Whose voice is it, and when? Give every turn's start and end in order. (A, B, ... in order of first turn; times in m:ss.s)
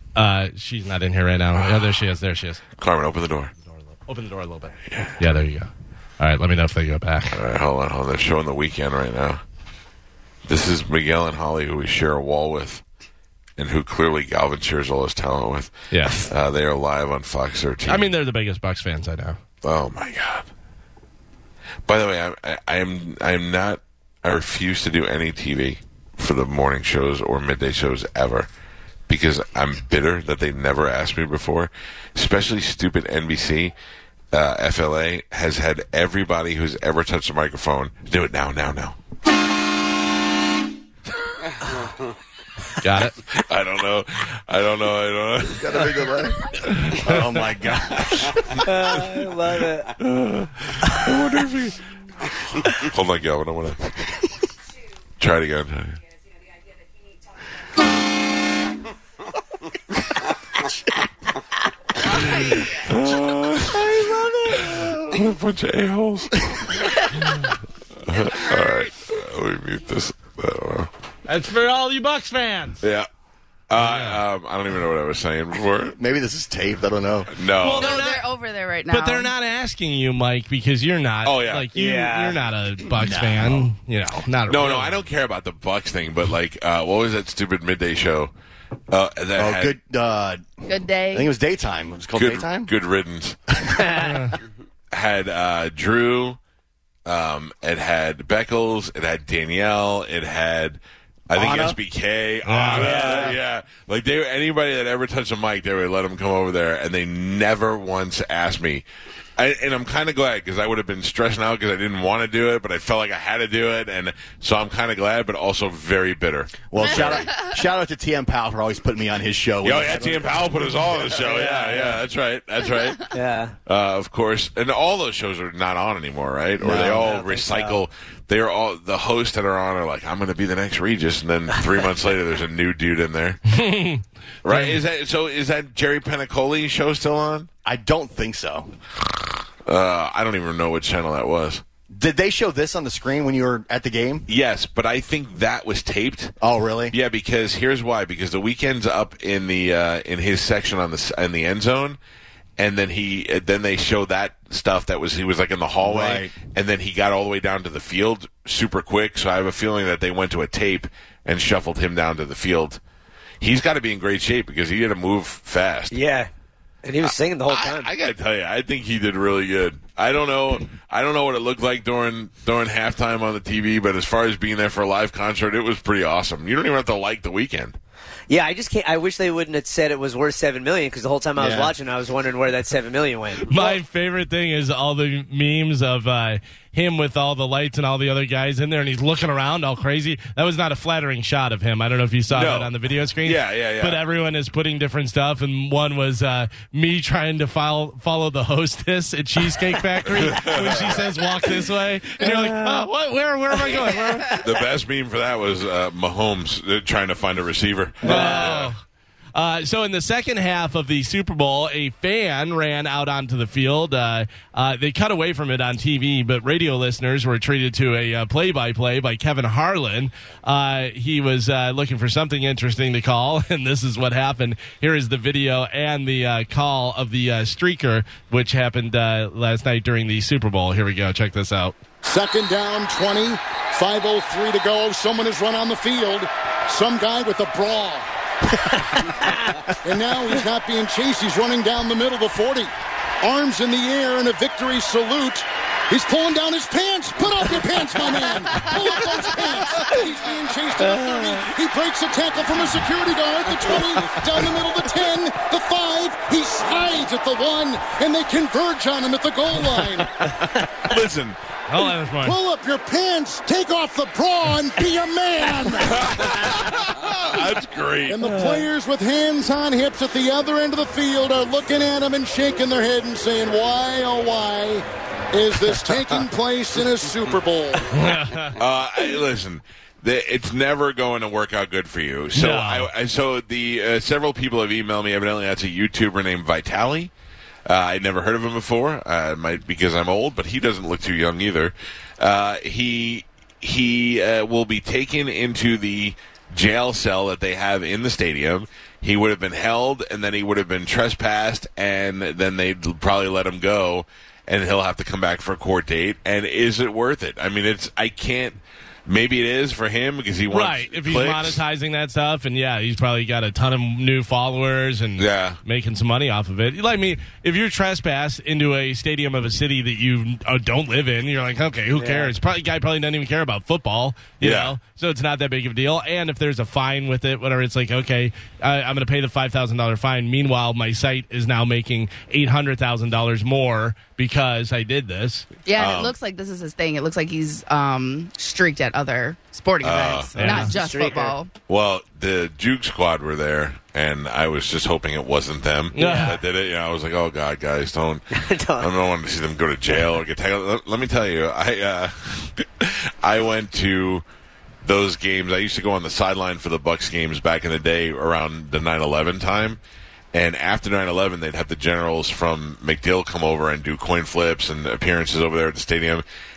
0:00.2-0:02.6 A
0:02.8-0:03.5 B
0:03.7-0:07.4 A
0:04.9-0:05.2 B
0:07.3-0:09.4 B
0:10.5-0:12.8 B
0:13.6-0:18.1 B
0:15.9-0:16.3 A
0:17.9-0:19.4 A
0:19.6-0:20.5 B
0:21.9-0:28.5 B
0:29.1-0:33.7 B
0:34.3-0:39.0 B
0:42.8-0:43.1 A
0:43.3-0:46.2 B
0:45.4-0:48.3 C
0:46.7-0:47.2 A
0:48.6-0:49.9 D
0:50.0-0:51.8 B
0:52.6-0:54.2 B
0:55.2-0:56.0 B
1:02.2-1:02.5 A
1:02.8-1:03.9 B
1:03.8-1:05.1 A
1:04.6-1:06.9 B
1:08.1-1:10.9 B
1:11.3-1:12.8 A
1:12.8-1:13.1 B
1:13.7-1:16.0 B
1:13.8-1:14.2 A
1:16.0-1:17.3 C
1:17.3-1:18.0 B
1:17.6-1:18.3 A
1:17.7-1:19.3 E
1:18.9-1:25.0 A
1:21.2-1:21.7 B
1:21.7-1:22.4 D
1:23.0-1:23.6 C
1:24.5-1:28.3 B
1:28.9-1:29.8 B
1:29.4-1:32.7 C
1:30.7-1:31.3 E
1:32.2-1:33.4 B
1:33.6-1:34.0 C
1:33.8-1:34.1 D
1:34.0-1:34.3 A
1:34.9-1:36.4 B
1:37.1-1:40.8 B
1:41.3-1:48.9 B
1:41.3-1:41.8 D
1:42.4-1:43.3 A
1:42.7-1:43.4 D
1:49.4-1:57.3 B
1:56.7-2:00.5 C
1:56.8-1:57.5 E
1:59.6-2:03.1 B
1:59.9-2:00.1 D
2:01.2-2:02.0 D
2:03.1-2:03.6 D
2:03.7-2:13.4 B
2:06.6-2:07.1 C
2:06.8-2:07.8 D
2:13.5-2:14.8 A
2:14.4-2:17.5 B
2:17.6-2:18.7 C
2:19.7-2:21.6 B
2:21.9-2:24.2 C
2:24.3-2:26.3 B
2:26.4-2:27.0 C
2:26.9-2:32.0 B
2:32.6-2:42.8 B
2:35.8-2:36.3 C
2:43.4-2:46.0 B
2:45.9-2:46.3 D
2:46.8-2:47.9 D
2:47.0-2:57.8 B
2:58.3-3:03.8 D
3:01.4-3:01.7 C
3:03.5-3:24.4 A
3:12.3-3:14.0 B
3:20.2-3:21.0 B
3:22.2-3:22.8 D
3:24.4-3:28.7 B
3:28.0-3:28.5 D
3:28.0-3:28.8 A
3:29.4-3:51.8 A
3:52.0-3:58.1 F
3:59.1-3:59.6 D
3:59.8-4:02.7 F
4:03.2-4:20.3 F
4:20.9-4:21.4 B
4:21.7-4:22.4 A
4:22.2-4:27.4 F
4:25.8-4:28.2 B
4:28.1-4:37.9 F
4:28.2-4:28.6 D
4:37.9-4:38.6 A
4:38.6-4:47.1 B
4:42.4-4:42.9 A
4:47.7-5:11.6 B
5:10.5-5:35.5 A
5:15.2-5:15.6 B
5:22.0-5:22.3 D
5:24.4-5:24.8 B
5:35.7-5:41.5 E
5:35.8-5:36.2 B
5:39.8-5:40.7 B
5:40.4-5:40.8 A
5:40.4-5:41.4 D
5:41.7-5:54.2 B
5:45.9-5:46.4 A
5:46.0-5:46.3 D
5:48.3-5:48.9 D
5:54.8-5:59.8 B
6:00.3-6:06.2 B